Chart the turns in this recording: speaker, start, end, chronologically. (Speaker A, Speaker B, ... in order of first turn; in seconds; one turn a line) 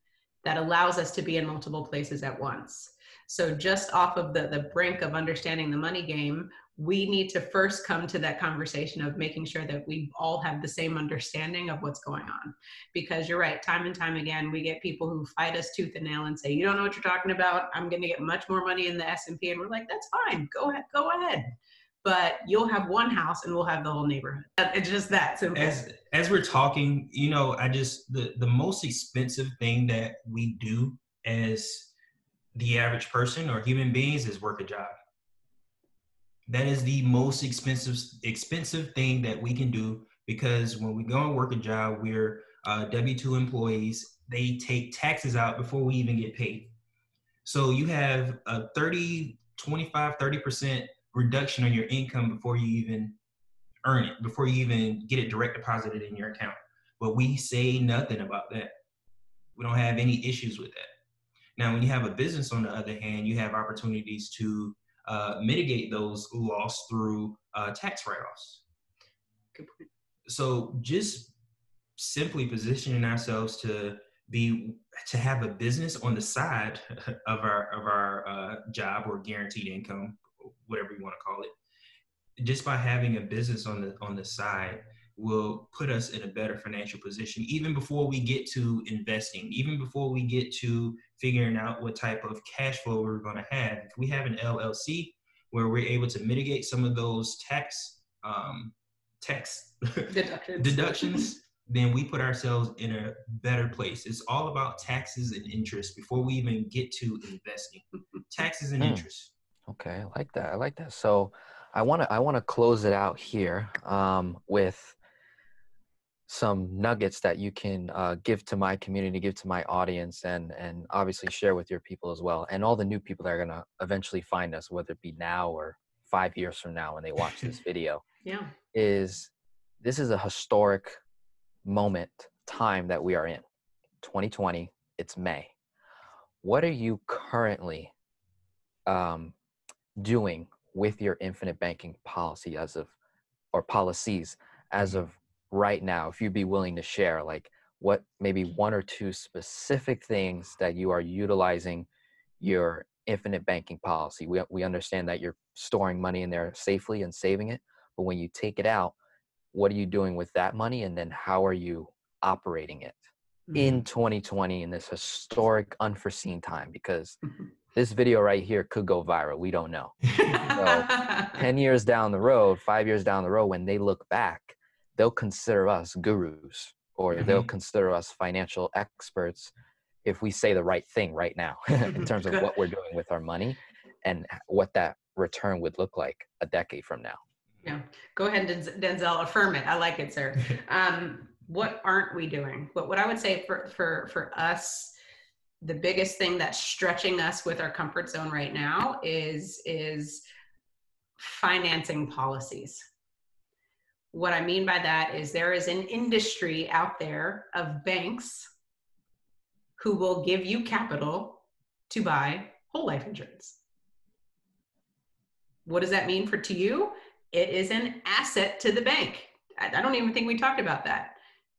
Speaker A: 0.4-21.5
Speaker A: 22.0-25.8
Speaker B: 25.5-31.9
Speaker B: 32.5-34.9
Speaker B: 36.5-46.7
Speaker B: 47.4-53.1
Speaker B: 53.8-58.7
Speaker B: 59.5-60.9
Speaker B: 61.6-68.6
Speaker A: 69.5-69.8
Speaker B: 70.3-71.3
Speaker B: 72.0-81.5
Speaker B: 82.4-109.3
Speaker A: 100.1-101.3
Speaker C: 108.8-109.0
Speaker C: 109.7-115.0
Speaker C: 116.3-128.0
Speaker A: 128.2-128.5
Speaker C: 128.7-129.3
Speaker C: 129.8-131.0
Speaker C: 131.6-133.4
Speaker C: 134.0-135.5
Speaker C: 136.4-137.9
Speaker C: 138.9-139.3
Speaker C: 140.0-142.9
Speaker C: 143.5-151.9
Speaker C: 152.4-158.9
Speaker C: 159.5-163.0
Speaker A: 163.5-163.7
Speaker C: 163.5-167.2
Speaker C: 167.7-179.5
Speaker A: 170.2-171.4
Speaker B: 177.2-177.5
Speaker C: 180.0-187.2
Speaker A: 181.9-182.5
Speaker A: 187.6-194.9
Speaker A: 195.6-200.2
Speaker A: 201.2-202.8
Speaker A: 204.1-208.5
Speaker A: 209.8-213.6
Speaker A: 215.6-221.2